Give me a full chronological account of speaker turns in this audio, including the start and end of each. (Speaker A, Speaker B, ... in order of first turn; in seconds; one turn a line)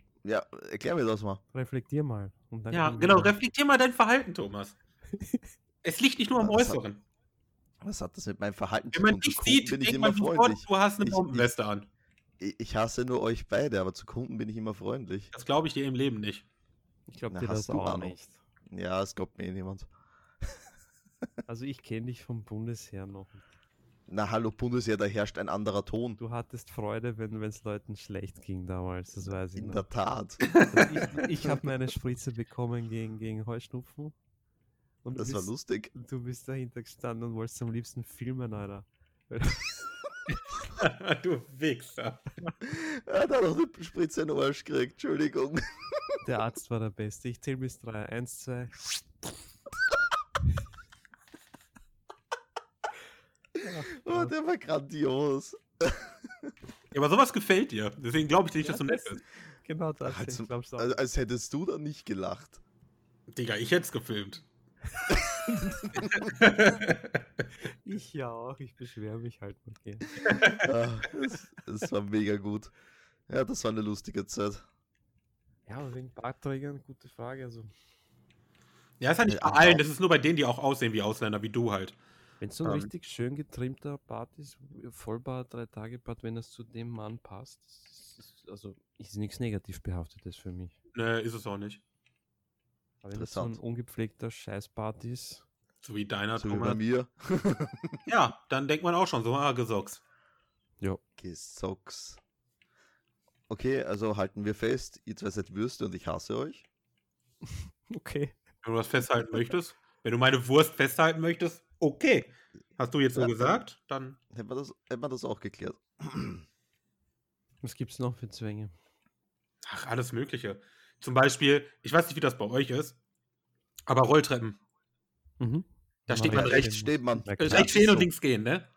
Speaker A: 0.2-1.4
Speaker B: 1.5-3.3
Speaker C: 2.7-4.8
Speaker B: 5.1-5.4
Speaker C: 5.8-7.0
Speaker A: 6.3-6.8
Speaker A: 7.8-11.5
Speaker C: 8.9-11.9
Speaker A: 12.4-15.3
Speaker C: 15.3-16.4
Speaker B: 17.1-18.4
Speaker A: 17.3-18.1
Speaker A: 18.7-19.9
Speaker B: 21.5-23.4
Speaker A: 24.1-26.2
Speaker B: 26.2-29.9
Speaker A: 29.6-30.7
Speaker C: 30.5-31.0
Speaker B: 30.7-34.1
Speaker B: 35.0-39.8
Speaker A: 35.1-35.9
Speaker C: 40.7-42.3
Speaker A: 42.6-46.2
Speaker B: 46.2-49.0
Speaker B: 53.6-54.3
Speaker A: 54.0-56.5
Speaker C: 56.9-59.2
Speaker B: 58.6-61.0
Speaker A: 60.1-62.6
Speaker C: 63.3-64.4
Speaker A: 65.1-66.3
Speaker C: 66.0-67.0
Speaker B: 67.8-70.1
Speaker C: 70.2-70.7
Speaker A: 70.5-72.7
Speaker A: 73.3-74.6
Speaker B: 75.7-77.7
Speaker C: 79.0-82.0
Speaker A: 79.2-79.8
Speaker B: 82.4-90.7
Speaker C: 82.6-82.9
Speaker C: 90.9-91.8
Speaker B: 93.0-95.4
Speaker A: 93.1-93.6
Speaker C: 95.8-96.8
Speaker A: 96.4-98.0
Speaker C: 98.1-100.0
Speaker A: 101.2-102.2
Speaker A: 103.5-106.7
Speaker B: 107.5-108.4
Speaker C: 108.6-114.2
Speaker A: 113.1-113.6
Speaker A: 114.3-116.4
Speaker B: 117.6-118.7
Speaker C: 119.6-123.0
Speaker C: 123.9-124.6
Speaker B: 125.4-128.0
Speaker C: 126.1-126.8
Speaker A: 126.2-128.1
Speaker C: 127.4-128.7